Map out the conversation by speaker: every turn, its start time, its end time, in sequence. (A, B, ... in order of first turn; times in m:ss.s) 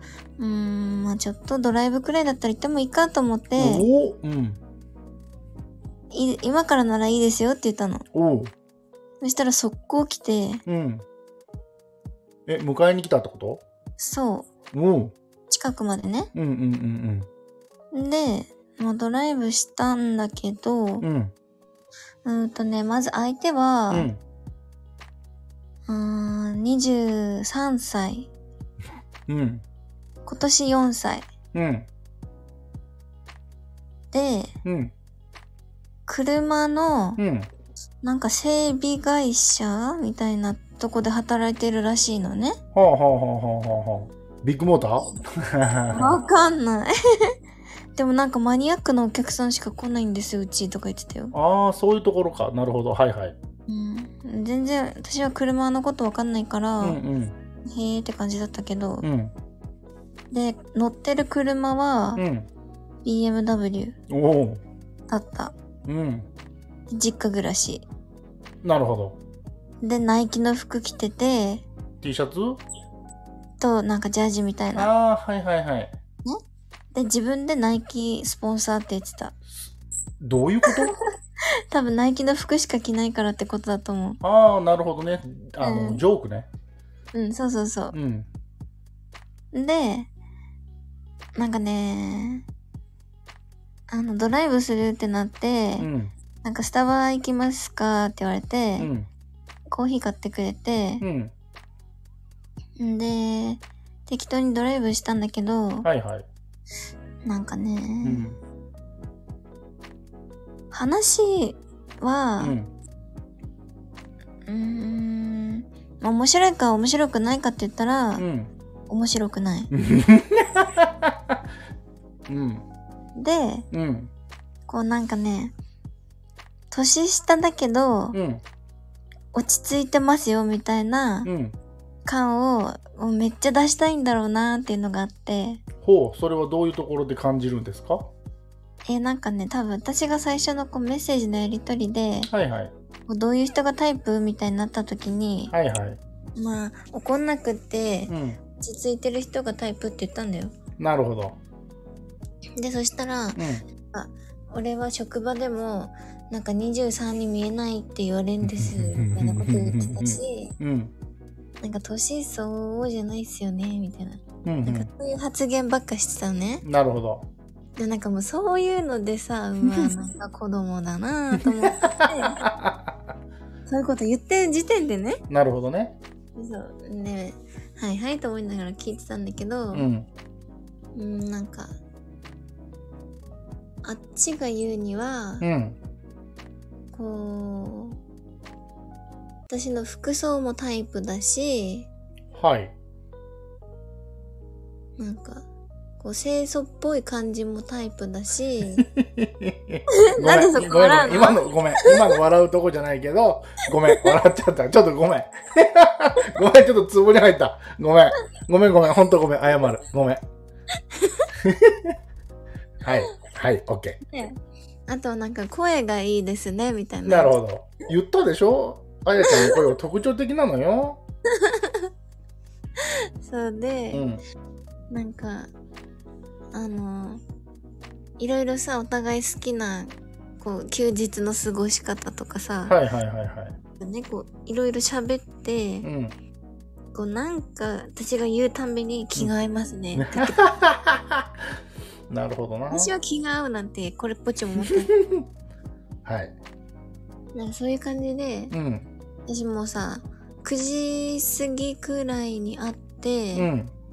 0:00.4-0:03.9 A
0:03.6-0:04.6 B
0:06.1-0:08.0 A
0:08.1-0:08.5 B
0:09.2-0:10.6 A
0:10.7-0:11.0 B
0:12.5-0:13.6 B
0:14.0-0:14.5 A
0:14.7-0:15.1 B
0:15.5-0:16.3 A
0:16.3-0:17.3 B
0:17.9-0:21.0 A
0:21.0-0:21.3 B
0:22.2-0:24.1 A
0:23.9-0:24.2 B
0:25.9-0:28.3 A
0:29.3-0:29.6 B
0:30.2-0:31.3 A
0:31.5-0:31.9 B
0:34.1-0:34.5 A
0:34.6-0:34.9 B
0:36.1-0:37.2 A
0:37.2-0:37.5 B
0:38.0-0:42.6 A
0:42.7-0:46.2 B
0:45.9-0:47.3 A
0:48.0-0:51.3 A
0:51.3-0:53.4 B
0:53.7-0:57.0 A
0:56.8-0:57.4 B
0:57.7-0:59.0 A
0:59.0-0:59.3 B
1:00.3-1:02.2 A
1:02.2-1:02.5 B
1:03.0-1:04.0 A
1:04.1-1:04.6 B
1:05.1-1:05.5 A
1:05.9-1:06.3 B
1:06.9-1:07.8 A
1:08.6-1:09.2 B
1:09.8-1:11.6 A
1:12.0-1:12.6 B
1:13.6-1:14.9 A
1:14.7-1:15.9 B
1:16.9-1:19.3 A
1:19.5-1:20.9 B
1:21.7-1:24.2 A
1:24.2-1:26.5 B
1:25.6-1:26.0 A
1:27.1-1:28.0 A
1:27.9-1:28.3 B
1:29.5-1:30.1 A
1:31.4-1:32.4 A
1:33.9-1:35.9 A
1:35.8-1:36.1 B
1:36.4-1:38.9 A
1:38.8-1:39.1 B
1:39.7-1:41.0 A
1:41.0-1:41.3 B
1:42.8-1:45.9 A
1:45.8-1:46.3 B
1:47.2-1:48.3 A
1:48.0-1:48.4 B
1:50.7-1:52.6 A
1:52.4-1:52.7 B
1:54.5-1:58.2 A
1:58.2-1:58.5 B
1:58.9-1:59.7 A
1:59.7-2:01.4 B
2:02.3-2:02.6 B
2:03.1-2:03.6 A
2:03.7-2:04.1 B
2:04.7-2:05.5 A
2:06.7-2:08.2 A
2:08.1-2:08.4 B
2:09.3-2:11.3 A
2:11.2-2:11.6 B
2:12.0-2:15.6 A
2:15.8-2:18.1 B
2:18.9-2:22.3 A
2:22.2-2:22.7 B
2:23.1-2:25.5 A
2:25.5-2:26.0 B
2:26.4-2:30.5 A
2:28.1-2:28.4 B
2:30.8-2:31.4 B
2:32.6-2:40.5 A
2:33.4-2:33.6 B
2:38.4-2:40.9 B
2:41.6-2:46.6 A
2:44.4-2:44.9 B
2:46.6-2:47.2 B
2:47.8-2:52.4 A
2:52.0-2:52.7 B
2:53.6-2:55.2 A
2:55.3-2:56.0 B
2:56.4-2:59.9 A
2:59.7-3:00.1 B
3:00.9-3:01.7 A
3:03.8-3:05.4 A
3:05.4-3:05.8 B
3:06.9-3:08.0 A
3:09.5-3:11.9 A
3:12.3-3:12.7 B
3:15.0-3:15.4 A
3:16.0-3:18.8 A
3:18.8-3:30.2 B
3:20.1-3:22.0 A
3:31.4-3:31.9 B
3:32.8-3:34.0 B
3:34.1-3:34.4 A
3:34.9-3:37.3 A
3:37.0-3:41.0 B
3:39.2-3:39.6 A
3:41.4-3:41.9 A
3:42.8-3:44.0 A
3:43.9-3:44.2 B
3:44.9-3:45.5 A
3:46.5-3:47.2 A
3:48.2-3:52.8 A
3:52.7-3:53.6 B
3:53.8-3:55.9 A
3:55.8-3:56.1 B
3:56.9-4:00.5 A
3:59.9-4:01.3 B
4:02.1-4:02.9 B
4:02.7-4:04.9 A
4:04.7-4:05.2 B
4:06.0-4:06.4 B
4:07.3-4:08.5 A
4:08.5-4:08.9 B
4:09.3-4:13.5 A
4:13.3-4:13.7 B